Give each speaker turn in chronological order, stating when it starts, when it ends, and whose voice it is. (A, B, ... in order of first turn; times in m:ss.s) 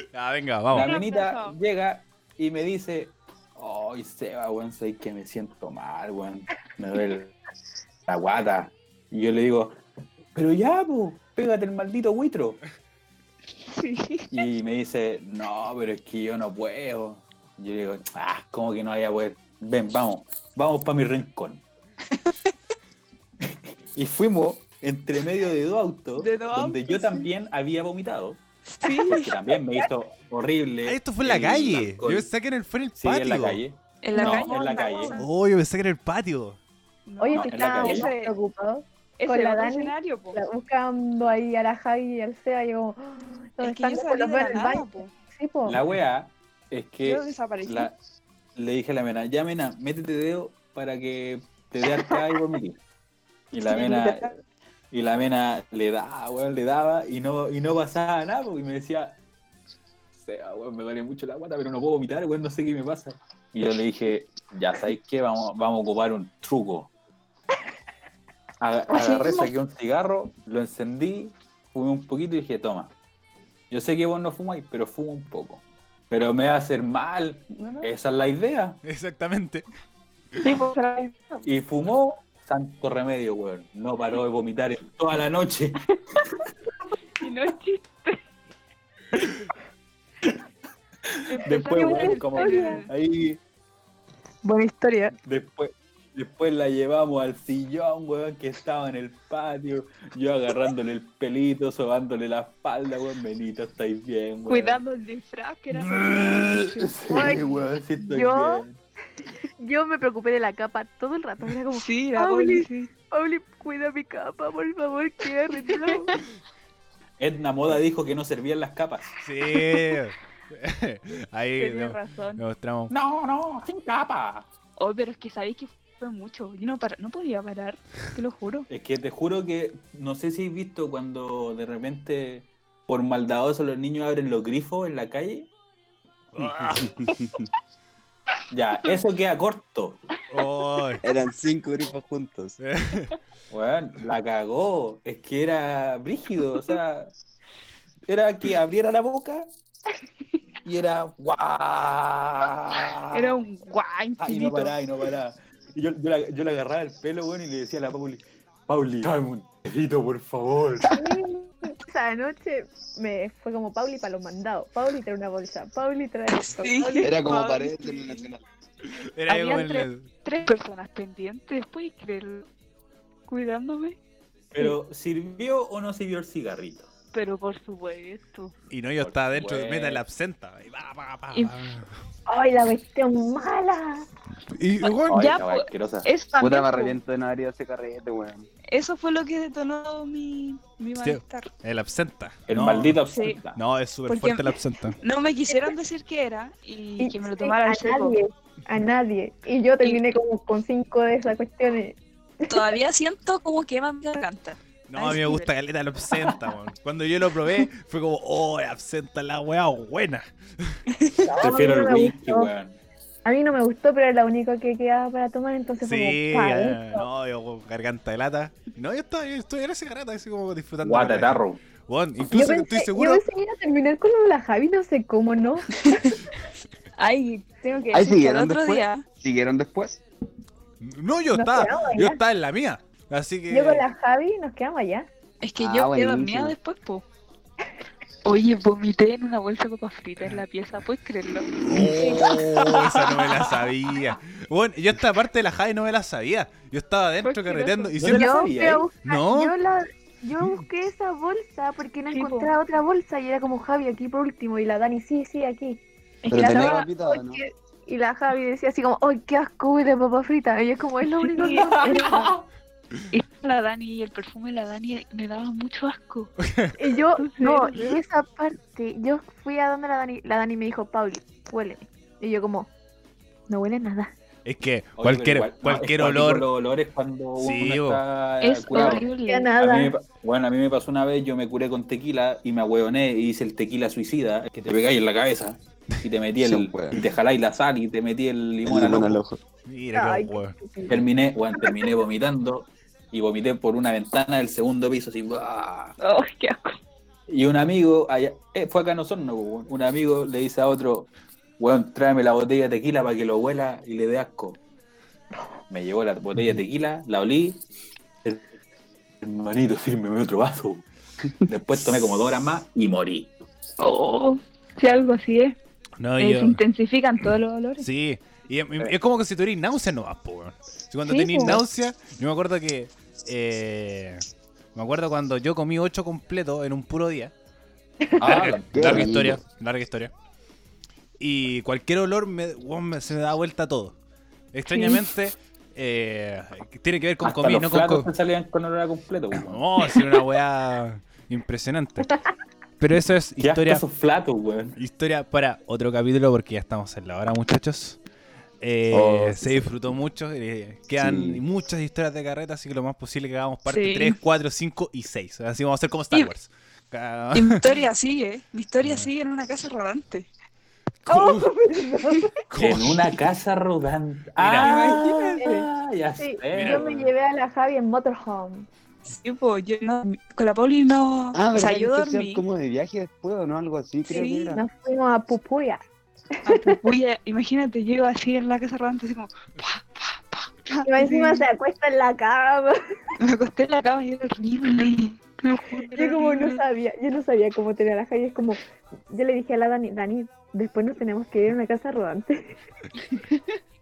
0:00.1-0:01.0 A
0:00.7-0:07.3 B
0:00.7-0:01.6 C
0:08.1-0:09.8 B
0:10.3-0:12.6 B
0:13.6-0:14.3 C
0:14.3-0:21.6 B
0:23.4-0:32.3 B
0:26.2-0:27.3 C
0:28.8-0:29.4 C
0:30.8-0:33.6 A
0:33.0-0:35.2 B
0:34.0-0:35.3 C
0:34.2-0:34.5 A
0:35.2-0:36.6 A
0:37.1-0:38.3 C
0:37.2-0:45.8 D
0:37.3-0:38.1 B
0:39.2-0:40.4 C
0:43.6-0:45.1 C
0:45.6-0:48.0 B
0:47.0-0:47.9 C
0:48.6-0:52.8 B
0:53.5-0:54.3 B
0:53.7-0:54.3 C
0:54.9-0:59.2 B
1:00.2-1:06.9 B
1:08.6-1:12.9 B
1:08.9-1:09.4 C
1:13.7-1:18.8 B
1:17.5-1:17.9 C
1:18.8-1:19.7 A
1:20.4-1:21.4 C
1:21.4-1:25.8 B
1:27.2-1:28.2 C
1:31.1-1:33.4 B
1:31.3-1:32.9 C
1:31.7-1:32.8 D
1:34.4-1:35.1 D
1:35.2-1:44.8 B
1:44.5-1:47.3 C
1:45.7-1:48.8 B
1:47.1-1:48.6 D
1:49.6-1:56.1 D
1:51.7-1:52.9 C
1:55.5-1:56.3 C
1:57.2-1:59.2 B
1:59.2-2:02.9 A
1:59.5-2:00.0 C
2:01.6-2:02.4 C
2:02.9-2:04.5 B
2:04.8-2:08.7 C
2:08.7-2:15.5 B
2:16.4-2:16.9 A
2:18.5-2:20.0 B
2:20.3-2:21.0 A
2:21.0-2:22.6 E
2:22.6-2:23.1 A
2:23.5-2:27.1 B
2:28.1-2:29.5 B
2:30.6-2:33.3 B
2:33.1-2:34.7 C
2:34.2-2:41.0 B
2:41.0-2:47.2 D
2:46.4-2:48.3 C
2:47.0-2:48.4 E
2:48.9-2:50.1 A
2:49.3-2:52.5 C
2:53.3-2:54.0 C
2:54.5-2:56.9 B
2:57.1-2:58.5 C
2:58.7-3:01.9 A
2:59.0-3:00.0 B
3:01.3-3:01.7 C
3:02.3-3:04.1 D
3:04.5-3:05.4 A
3:04.8-3:07.0 C
3:05.1-3:06.1 B
3:06.4-3:08.5 E
3:08.7-3:11.5 C
3:11.0-3:13.0 A
3:12.5-3:13.6 B
3:13.1-3:13.4 C
3:13.6-3:15.0 A
3:14.1-3:18.2 C
3:17.0-3:22.0 D
3:22.5-3:25.5 C
3:24.9-3:30.8 A
3:30.9-3:31.3 C
3:31.2-3:32.5 D
3:31.4-3:32.8 B
3:33.2-3:37.1 D
3:35.8-3:43.2 A
3:40.8-3:41.6 B
3:42.3-3:46.2 D
3:47.0-3:49.0 C
3:47.9-3:50.0 E
3:50.8-3:53.8 A
3:51.3-3:52.2 D
3:53.5-3:55.1 D
3:55.4-3:57.1 C
3:55.6-3:56.6 E
3:58.2-4:01.5 C
4:01.6-4:08.5 A
4:01.8-4:03.5 B
4:02.0-4:02.3 D
4:07.2-4:08.0 C
4:08.0-4:08.9 B
4:08.1-4:22.3 D
4:09.0-4:09.6 A
4:12.1-4:12.5 C
4:16.2-4:16.8 C
4:16.3-4:17.4 E
4:21.2-4:22.3 C
4:21.6-4:22.4 B
4:23.1-4:26.3 C
4:26.4-4:26.8 A
4:26.8-4:32.7 D
4:27.1-4:28.0 C
4:33.5-4:34.1 D
4:34.4-4:36.5 A
4:35.0-4:39.1 B
4:37.4-4:38.0 A
4:38.4-4:39.5 C
4:38.7-4:39.9 D
4:39.6-4:49.2 B
4:46.4-4:47.0 E
4:48.6-4:49.4 E
4:49.7-4:50.6 A
4:49.9-4:51.0 D
4:50.9-4:56.0 B
4:56.0-4:56.8 C
4:57.3-5:04.6 B
5:05.7-5:07.6 B
5:09.2-5:10.8 B
5:11.4-5:13.3 B
5:13.8-5:15.6 C
5:16.0-5:16.6 A
5:16.2-5:17.9 C
5:17.8-5:24.2 A
5:21.1-5:21.6 C
5:24.8-5:27.3 A
5:28.2-5:30.1 A
5:28.2-5:29.4 E
5:28.2-5:29.1 B
5:31.2-5:34.0 A
5:34.5-5:38.1 A
5:34.7-5:35.0 C
5:37.2-5:39.6 B
5:39.4-5:42.1 A
5:42.8-5:43.8 A
5:43.4-5:44.8 B
5:44.8-5:48.0 A
5:48.6-5:57.8 A
5:48.9-5:49.7 E
5:51.0-5:51.4 E
5:53.7-5:54.2 C
5:57.3-6:00.3 C
5:58.8-5:59.1 A
6:01.1-6:01.4 A
6:01.1-6:02.3 D
6:02.5-6:03.1 A
6:02.6-6:07.0 B
6:04.4-6:05.4 A
6:04.6-6:05.4 C
6:05.4-6:08.7 D
6:06.5-6:07.1 A
6:09.1-6:12.4 C
6:11.3-6:14.6 E
6:14.1-6:14.6 C
6:14.1-6:15.8 D
6:16.4-6:21.5 C
6:16.5-6:16.8 D
6:20.9-6:22.8 D
6:23.2-6:26.6 C
6:25.9-6:28.6 D
6:29.1-6:32.6 D
6:33.0-6:33.6 C